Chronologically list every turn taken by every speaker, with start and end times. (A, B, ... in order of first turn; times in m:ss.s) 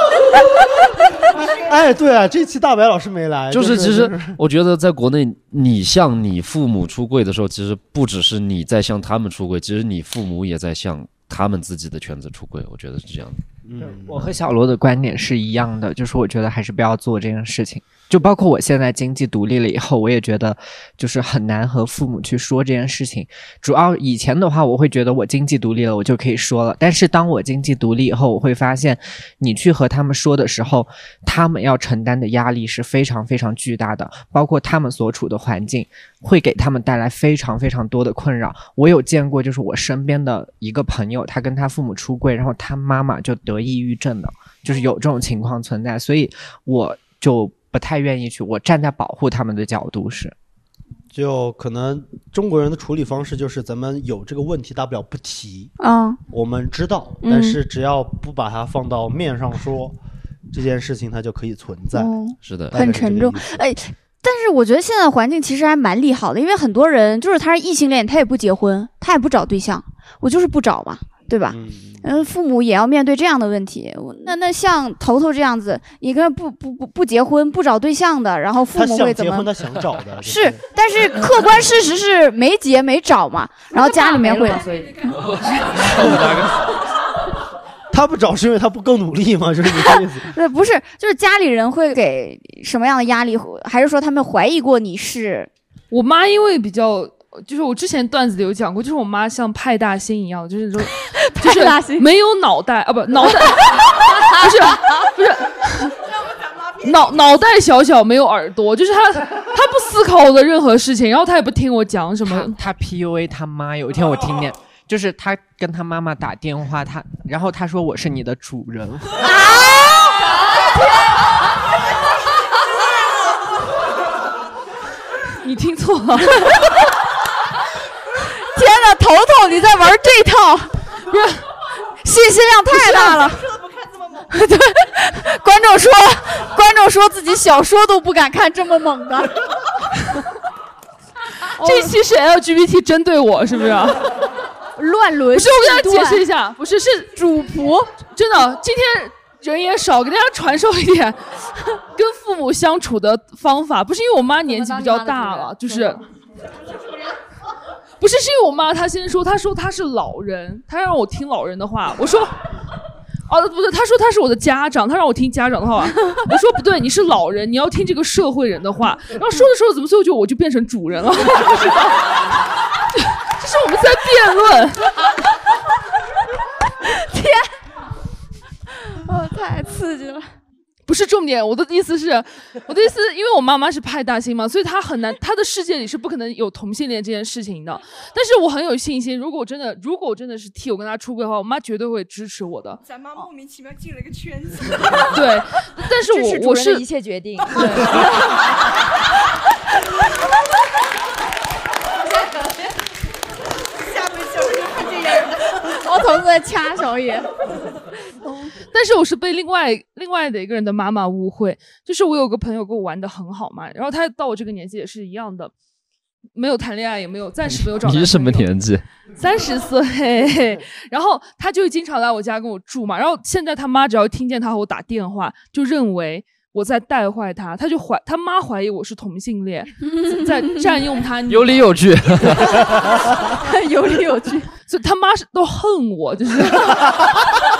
0:01.4-0:04.4 A
0:03.5-0:13.4 B
0:13.6-0:14.3 A
0:13.8-0:50.3 C
0:51.1-0:55.7 A
0:55.8-0:56.2 D
0:56.3-1:00.0 A
0:57.2-0:57.6 D
1:00.5-1:02.1 A
1:02.0-1:19.5 D
1:02.4-1:02.9 B
1:02.7-1:03.5 A
1:11.5-1:12.2 A
1:18.7-1:20.6 A
1:20.2-1:25.1 D
1:24.0-1:25.0 E
1:25.1-1:26.7 B
1:27.9-1:30.3 A
1:30.3-1:35.5 D
1:35.9-1:46.0 F
1:41.4-1:42.0 D
1:46.0-1:47.5 G
1:46.8-1:52.6 F
1:52.2-1:59.3 C
1:59.2-2:00.3 D
2:05.4-2:06.5 F
2:08.4-2:10.7 D
2:11.1-2:11.4 F
2:12.0-2:13.5 D
2:12.7-2:14.3 G
2:14.3-2:19.4 D
2:21.5-2:24.2 F
2:21.6-2:21.9 D
2:24.8-2:26.2 D
2:25.3-2:27.2 F
2:27.2-2:27.9 D
2:28.0-2:36.0 F
2:34.5-2:36.0 E
2:38.0-2:42.3 F
2:43.3-2:52.2 F
2:53.0-2:55.0 F
2:57.0-2:57.4 D
2:58.9-3:00.3 D
3:00.9-3:12.8 F
3:12.8-3:15.2 G
3:15.1-3:16.8 F
3:16.1-3:17.9 E
3:17.6-3:17.9 F
3:23.7-3:25.6 G
3:25.7-3:27.3 D
3:28.7-3:35.5 F
3:36.3-3:38.5 F
3:37.4-3:38.8 B
3:39.2-3:51.8 F
3:51.3-3:52.9 B
3:53.5-3:54.4 D
3:54.7-3:57.0 F